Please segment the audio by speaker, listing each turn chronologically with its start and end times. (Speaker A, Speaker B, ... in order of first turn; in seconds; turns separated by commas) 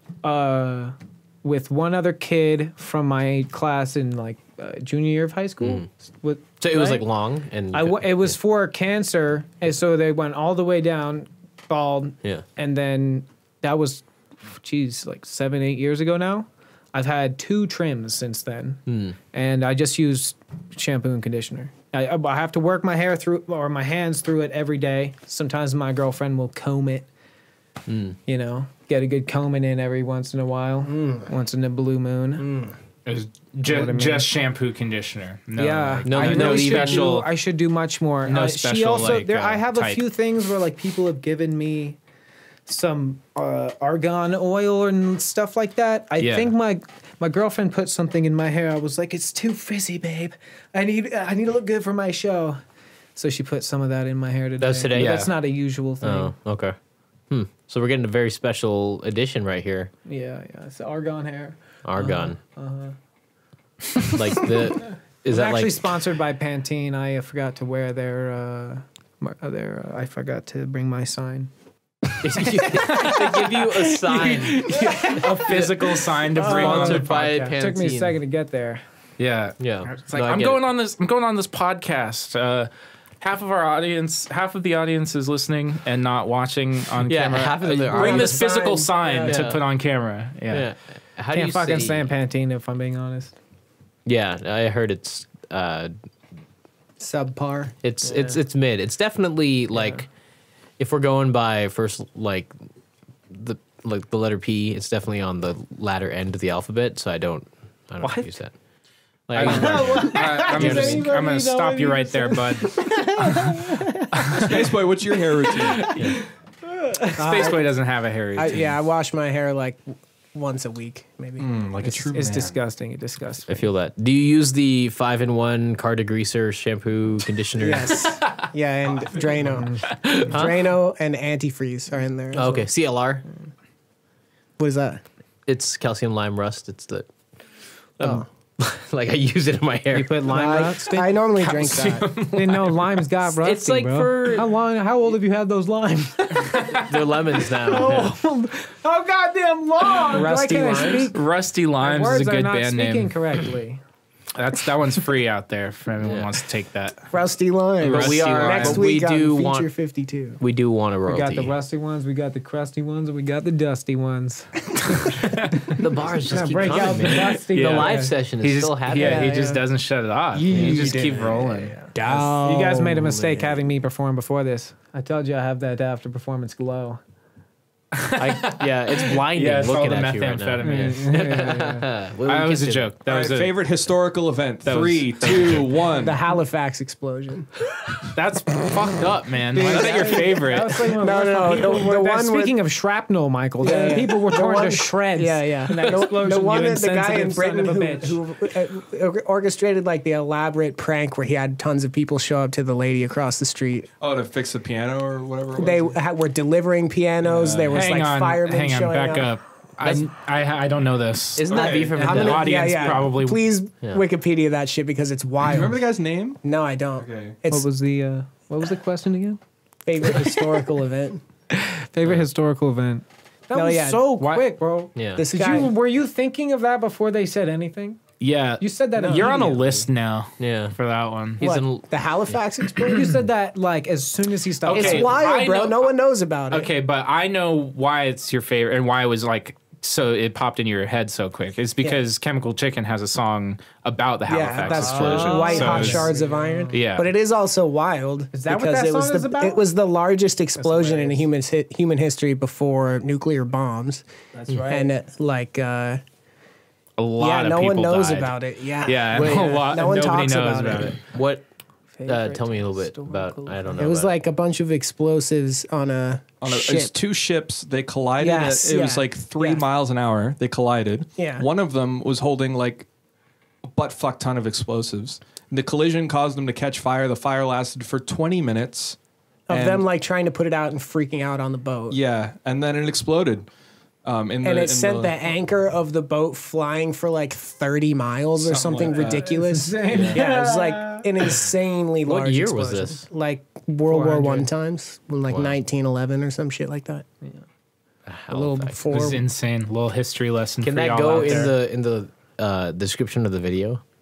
Speaker A: 0.2-7.0, Speaker B: 5.6-5.9, Speaker B: 6.6-8.3, Speaker A: 7.7-27.1, Speaker B: 18.9-19.1, Speaker B: 27.9-28.2, Speaker A: 28.3-32.6, Speaker C: 30.9-31.2, Speaker C: 32.4-32.7, Speaker D: 33.0-37.3, Speaker A: 33.6-34.3, Speaker A: 35.5-42.0, Speaker B: 36.0-37.1, Speaker D: 38.2-40.0, Speaker A: 42.7-52.6, Speaker D: 46.2-46.5, Speaker A: 53.1-56.3, Speaker B: 54.6-55.3, Speaker D: 54.9-55.3, Speaker B: 56.0-56.8, Speaker B: 57.3-59.9, Speaker A: 60.0-62.9, Speaker B: 61.8-62.4, Speaker B: 64.0-65.9, Speaker A: 65.3-71.5, Speaker A: 72.1-73.1, Speaker B: 72.2-78.1, Speaker D: 72.7-77.5, Speaker A: 74.7-75.7, Speaker A: 76.3-78.8, Speaker D: 79.2-82.7, Speaker B: 79.6-80.6, Speaker D: 83.2-90.7, Speaker B: 87.1-88.7, Speaker C: 87.9-89.5, Speaker B: 89.2-89.6, Speaker B: 90.5-92.1, Speaker A: 91.3-93.3, Speaker B: 94.0-95.9, Speaker C: 97.0-97.7, Speaker B: 97.8-100.1, Speaker B: 100.8-102.5, Speaker B: 103.3-108.5, Speaker B: 109.3-111.1, Speaker D: 109.3-113.3, Speaker A: 109.3-114.5, Speaker D: 114.2-114.6, Speaker E: 114.3-115.9, Speaker D: 115.8-116.2, Speaker A: 116.7-117.2, Speaker D: 117.1-118.8, Speaker C: 117.2-117.6, Speaker C: 118.3-121.4, Speaker E: 121.4-122.6, Speaker A: 121.8-123.7, Speaker B: 123.5-128.2, Speaker C: 127.5-132.7, Speaker E: 129.0-129.4, Speaker B: 130.1-130.6, Speaker B: 132.3-133.2, Speaker C: 134.6-135.0, Speaker B: 135.5-137.1, Speaker B: 138.0-140.2, Speaker A: 139.9-141.2, Speaker C: 140.3-142.1, Speaker D: 141.4-142.9, Speaker A: 142.3-151.2, Speaker B: 143.4-144.5, Speaker D: 146.4-146.8, Speaker B: 146.8-148.1, Speaker C: 150.1-151.1, Speaker D: 151.1-153.1, Speaker A: 151.8-153.8, Speaker D: 154.3-157.1, Speaker B: 156.0-156.3, Speaker C: 157.1-160.4, Speaker D: 157.8-158.9, Speaker B: 157.8-159.7, Speaker B: 160.4-161.5, Speaker A: 161.1-168.1, Speaker D: 165.0-165.7, Speaker B: 165.7-169.3, Speaker D: 166.8-171.8, Speaker C: 169.0-169.6, Speaker A: 170.4-177.0, Speaker C: 170.4-173.5, Speaker B: 170.5-171.1, Speaker D: 177.9-181.5, Speaker B: 178.2-182.9, Speaker A: 180.6-181.9, Speaker D: 182.2-183.5, Speaker E: 183.0-186.2, Speaker D: 184.6-185.7, Speaker C: 186.0-187.5, Speaker D: 188.1-190.9, Speaker B: 189.0-190.2, Speaker A: 189.5-198.2, Speaker C: 190.8-192.6, Speaker C: 193.6-203.9, Speaker E: 204.0-205.9, Speaker C: 205.6-209.3, Speaker E: 207.2-207.8, Speaker D: 207.7-213.4, Speaker B: 211.3-212.9, Speaker E: 211.5-212.1, Speaker C: 211.7-215.8, Speaker E: 215.4-216.4, Speaker C: 216.4-217.7, Speaker E: 217.0-217.3, Speaker A: 217.5-219.4, Speaker C: 219.8-221.2, Speaker A: 220.1-220.5, Speaker A: 221.5-228.0, Speaker C: 223.5-224.3, Speaker B: 224.9-225.2, Speaker C: 225.1-225.7, Speaker D: 228.2-231.4, Speaker A: 228.6-229.8, Speaker C: 229.0-229.4, Speaker B: 230.4-230.8, Speaker B: 231.4-232.4, Speaker C: 231.4-233.2, Speaker A: 232.9-235.2, Speaker D: 234.7-235.9, Speaker C: 234.7-236.7, Speaker D: 236.5-246.1, Speaker C: 244.3-254.0, Speaker A: 244.6-246.8, Speaker E: 245.6-246.0, Speaker D: 246.7-247.1, Speaker A: 248.3-249.6, Speaker A: 250.6-251.2, Speaker A: 254.3-254.9, Speaker C: 254.7-256.0, Speaker D: 257.0-261.0, Speaker C: 257.2-261.0, Speaker B: 261.1-261.4, Speaker A: 261.9-263.8, Speaker B: 262.1-264.1, Speaker C: 263.7-266.9, Speaker E: 266.4-272.9, Speaker C: 268.2-269.6, Speaker C: 271.2-271.4, Speaker E: 273.7-279.0, Speaker C: 279.5-282.0, Speaker E: 279.5-279.8, Speaker E: 281.9-283.4, Speaker E: 284.0-285.1, Speaker C: 284.4-297.0, Speaker E: 288.4-290.2, Speaker A: 289.2-291.4, Speaker B: 292.1-293.0, Speaker A: 293.9-294.5, Speaker B: 295.3-295.6, Speaker B: 298.1-298.8, Speaker C: 298.3-299.2, Speaker D: 298.9-301.6, Speaker B: 300.6-303.8, Speaker A: 301.2-301.5